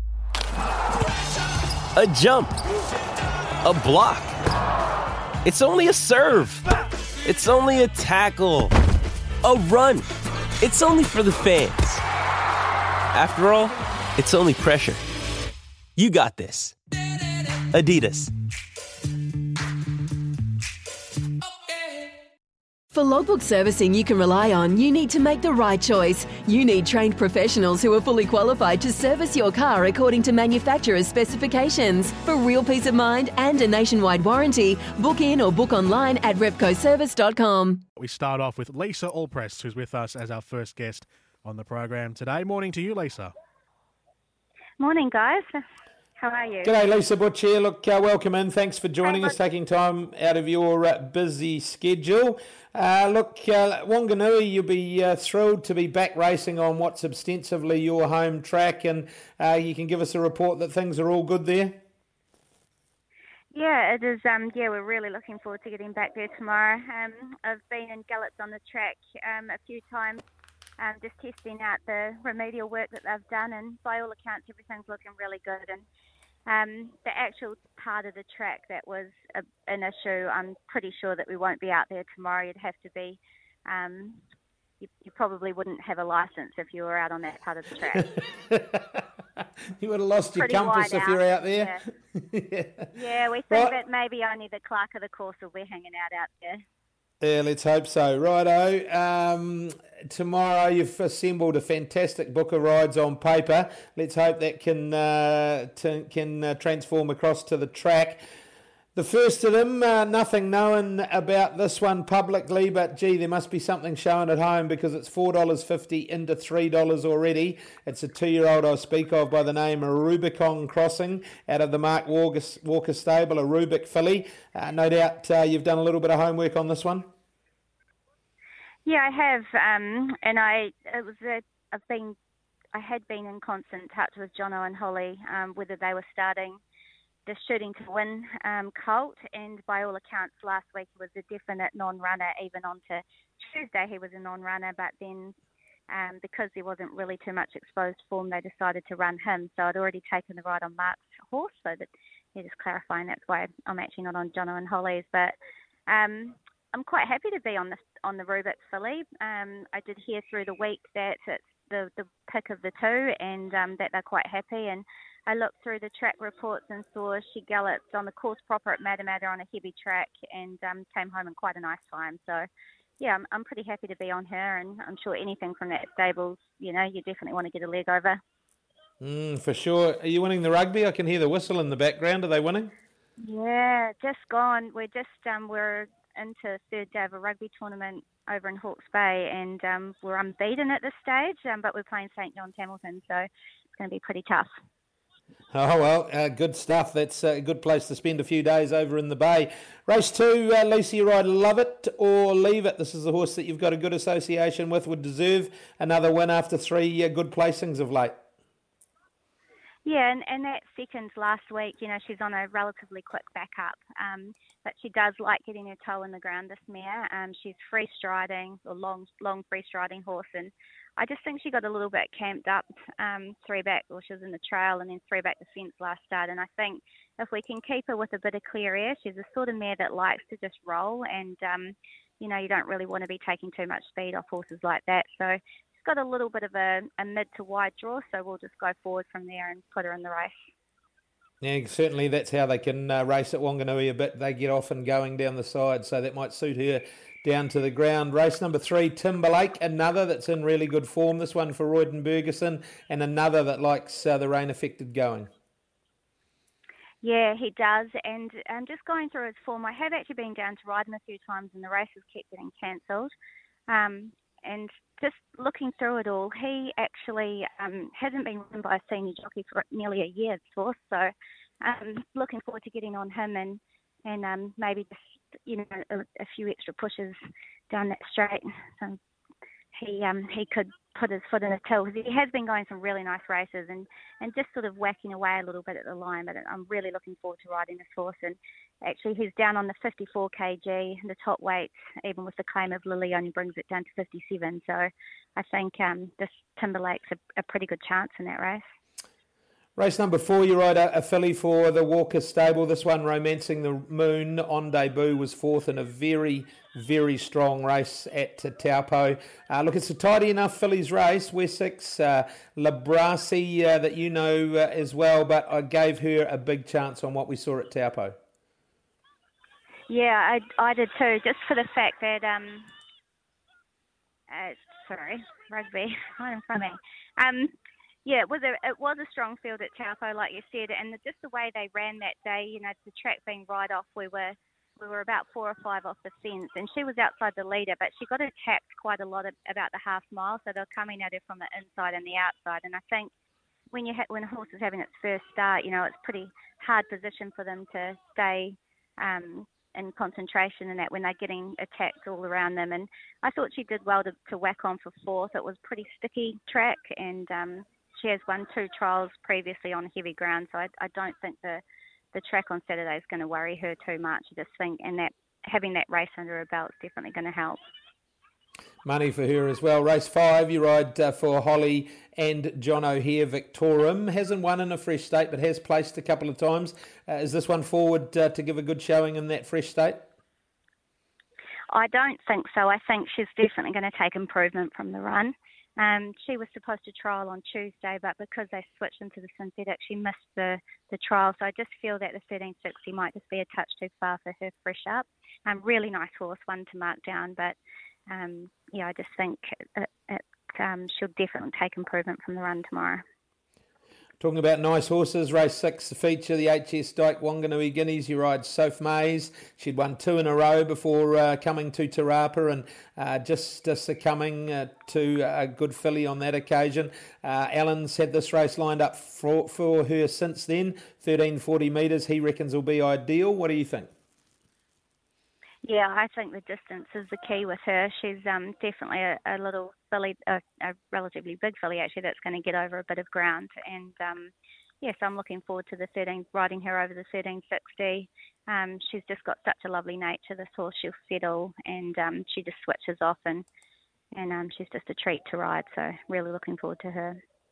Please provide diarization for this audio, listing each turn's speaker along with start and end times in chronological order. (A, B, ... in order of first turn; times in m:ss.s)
0:02.0-0:02.6 A
0:03.6-0:04.3 A
0:05.4-0:06.6 A
0:07.2-0:08.7 A
0:09.4-0:10.1 A
0:10.6-0:12.0 A
0:13.1-0:15.0 A
0:16.0-0:16.8 A
0:17.6-0:18.3 A
0:22.9-0:37.8 B
0:38.0-0:43.3 C
0:44.8-0:45.4 D
0:46.2-0:46.7 D
0:46.6-1:01.8 E
0:49.0-0:49.4 D
1:03.5-1:10.2 D
1:10.8-1:15.8 D
1:16.5-1:24.2 D
1:24.8-1:28.1 D
1:28.4-1:29.0 E
1:29.8-1:32.9 E
1:30.4-1:31.8 D
1:32.9-1:36.6 D
1:37.2-1:48.2 E
1:48.9-2:07.1 E
2:08.8-2:12.2 D
2:12.7-2:16.6 D
2:17.2-2:25.3 D
2:25.9-2:35.3 D
2:35.9-2:52.4 D
2:53.0-2:58.2 D
2:59.0-3:02.7 E
3:03.2-3:14.5 D
3:15.5-3:28.2 E
3:29.8-4:00.4 D
4:01.4-4:15.3 E
4:17.0-4:23.1 D
4:23.7-4:37.2 D
4:37.7-4:39.0 D
4:39.7-4:58.6 D
4:59.8-5:18.1 E
5:19.9-5:22.7 D
5:24.3-5:27.5 D
5:28.0-5:43.1 D
5:43.7-6:01.6 D
6:02.1-6:07.6 D
6:08.8-6:20.0 E
6:21.7-6:37.6 D
6:38.1-6:43.0 D
6:44.2-7:03.9 E
7:05.6-7:23.4 D
7:24.1-7:27.2 D